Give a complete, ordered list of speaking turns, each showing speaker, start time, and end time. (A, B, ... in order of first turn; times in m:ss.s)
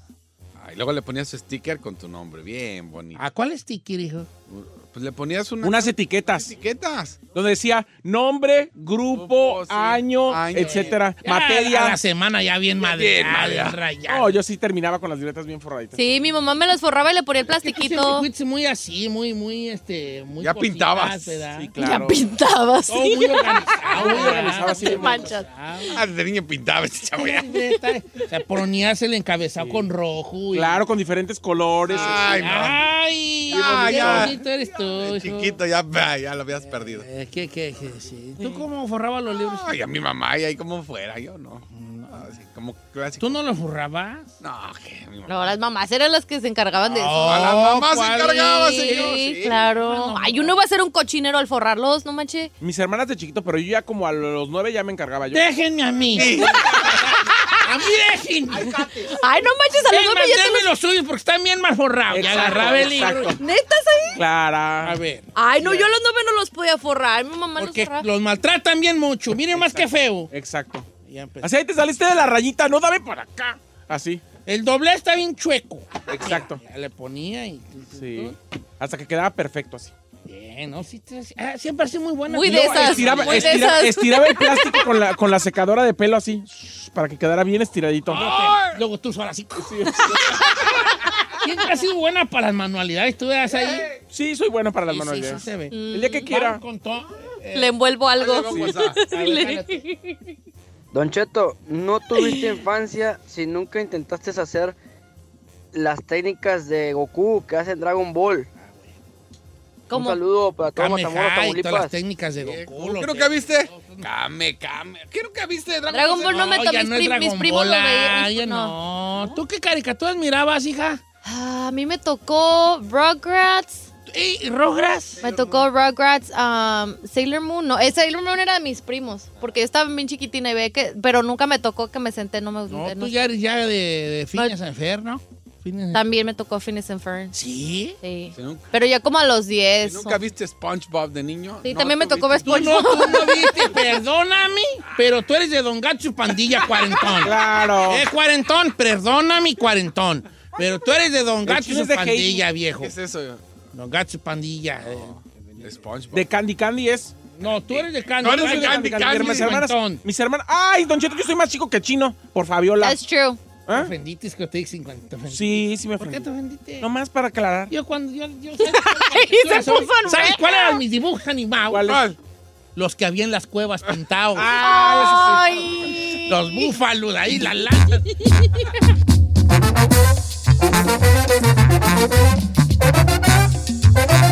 0:00.6-0:03.2 A
0:03.2-0:04.3 B
0:04.5-0:07.2 A
0:05.6-0:06.5 C
0:07.3-0:12.0 C
0:09.2-0:11.0 A
0:10.6-0:14.4 B
0:12.8-0:13.8 A
0:14.1-0:16.0 C
0:16.0-0:18.3 D
0:17.6-0:21.7 B
0:20.4-0:21.4 A
0:21.6-0:22.2 C
0:21.8-0:25.4 D
0:22.9-0:26.0 B
0:24.0-0:25.2 C
0:25.9-0:27.7 A
0:27.2-0:30.8 B
0:30.5-0:32.6 C
0:31.9-0:32.8 A
0:31.9-0:35.6 B
0:33.5-0:37.1 A
0:36.7-0:39.7 B
0:39.3-0:43.4 A
0:41.7-0:42.3 B
0:43.2-0:44.3 B
0:44.4-0:45.6 A
0:45.3-0:47.5 D
0:46.9-0:50.6 B
0:47.2-0:49.6 A
0:48.6-0:52.5 D
0:52.6-0:55.4 C
0:55.3-0:56.6 B
0:56.1-0:57.1 A
0:57.6-0:58.8 B
0:58.5-0:59.1 A
0:59.2-1:00.7 D
0:59.8-1:03.4 B
1:02.1-1:03.4 C
1:03.4-1:04.2 D
1:04.2-1:05.0 C
1:04.8-1:05.8 B
1:05.4-1:08.1 D
1:07.6-1:10.3 B
1:09.6-1:10.9 C
1:11.0-1:11.5 B
1:11.4-1:14.2 C
1:14.5-1:18.4 B
1:16.1-1:16.6 C
1:18.0-1:19.9 C
1:20.2-1:23.6 B
1:22.3-1:24.8 D
1:22.4-1:28.4 C
1:28.1-1:29.9 B
1:28.2-1:28.7 A
1:29.7-1:30.0 C
1:31.4-1:33.9 B
1:34.1-1:36.6 C
1:34.9-1:37.8 B
1:35.7-1:36.3 D
1:37.5-1:40.1 D
1:38.2-1:39.0 A
1:38.5-1:39.8 B
1:40.9-1:44.8 E
1:42.1-1:42.6 D
1:45.7-1:48.5 E
1:48.6-1:48.9 B
1:49.9-1:50.2 D
1:49.9-1:51.9 E
1:50.6-1:54.1 B
1:52.4-1:56.5 A
1:55.9-1:58.7 D
1:56.3-2:01.0 B
2:01.2-2:03.9 D
2:04.1-2:05.2 B
2:05.2-2:05.5 A
2:05.2-2:13.1 D
2:12.7-2:16.0 B
2:15.9-2:17.3 D
2:17.3-2:18.0 B
2:18.0-2:20.2 D
2:18.3-2:18.6 A
2:19.8-2:22.8 A
2:21.6-2:23.7 D
2:22.5-2:32.9 B
2:27.2-2:28.0 C
2:31.5-2:32.4 C
2:32.8-2:33.4 A
2:33.7-2:35.1 B
2:34.9-2:36.3 A
2:36.1-2:37.2 C
2:37.4-2:40.0 B
2:38.2-2:39.6 A
2:38.3-2:43.0 C
2:42.8-2:43.4 D
2:43.7-2:46.9 B
2:45.3-2:46.2 C
2:46.8-2:47.7 C
2:47.7-2:52.0 B
2:48.6-2:50.8 D
2:51.7-2:52.1 C
2:51.9-2:52.1 A
2:52.8-2:54.5 B
2:54.4-2:55.4 C
2:54.5-2:56.6 D
2:56.3-2:58.1 B